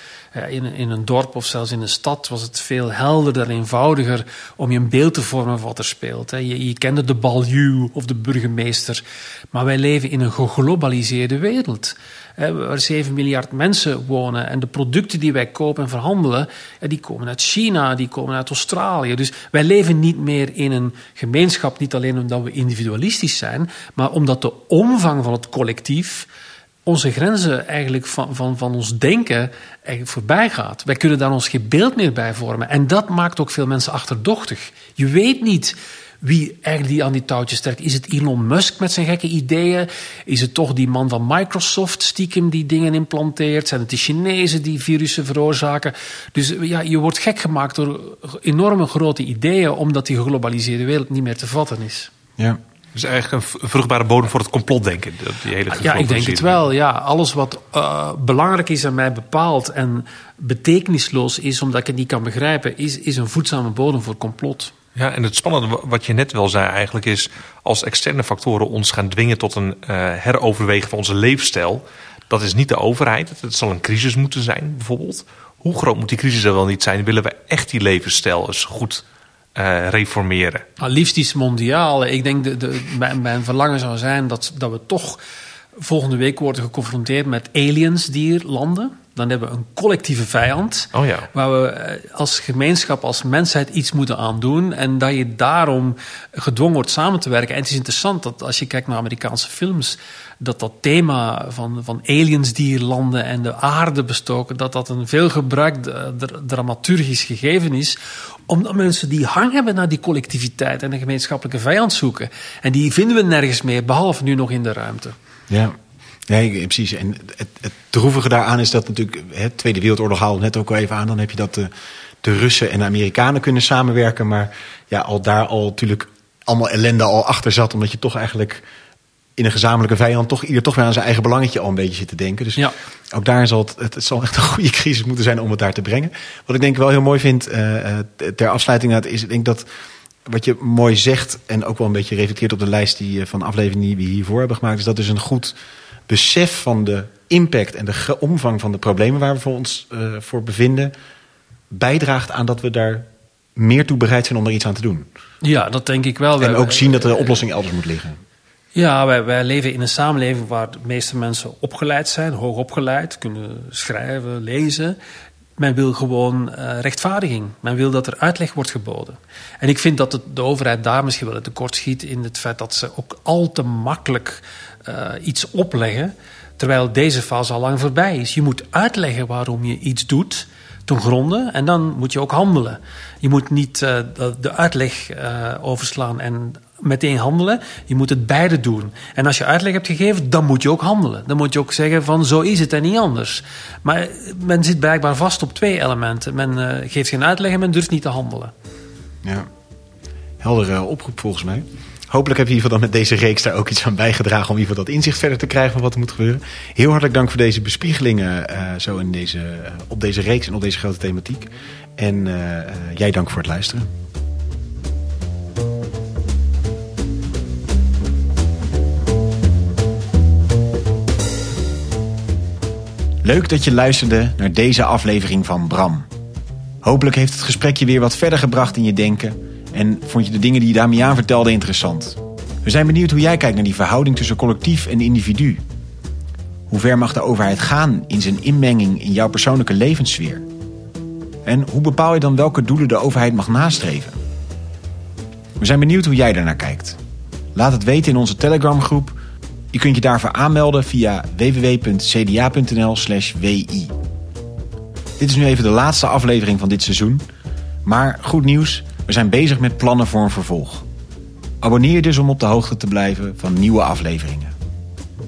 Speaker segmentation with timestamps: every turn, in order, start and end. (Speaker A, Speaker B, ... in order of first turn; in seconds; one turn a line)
Speaker A: 0.3-26.3
Speaker A: 26.9-52.1
Speaker B: 53.0-56.6
Speaker A: 55.7-64.7
Speaker B: 65.0-79.0
Speaker B: 79.6-80.6
Speaker A: 80.8-85.2
Speaker A: 85.8-115.1
Speaker B: 90.9-91.3
Speaker C: 115.5-115.8
Speaker C: 116.3-121.7
Speaker C: 122.2-128.6
Speaker C: 129.4-139.7
Speaker C: 140.3-145.6
Speaker C: 146.1-150.9
Speaker C: 151.7-155.1
Speaker A: 155.4-157.4
Speaker C: 156.4-158.2
Speaker A: 158.8-165.0
Speaker A: 165.6-198.5
Speaker C: 199.2-199.5
Speaker C: 200.4-213.9
Speaker C: 223.2-226.1
Speaker C: 226.8-235.6
Speaker C: 236.7-240.5
Speaker C: 241.4-244.2
Speaker C: 245.6-247.0
Speaker C: 247.6-249.2
Speaker C: 249.7-253.9
Speaker C: 255.2-257.3
Speaker C: 257.9-260.9
Speaker C: 261.6-264.6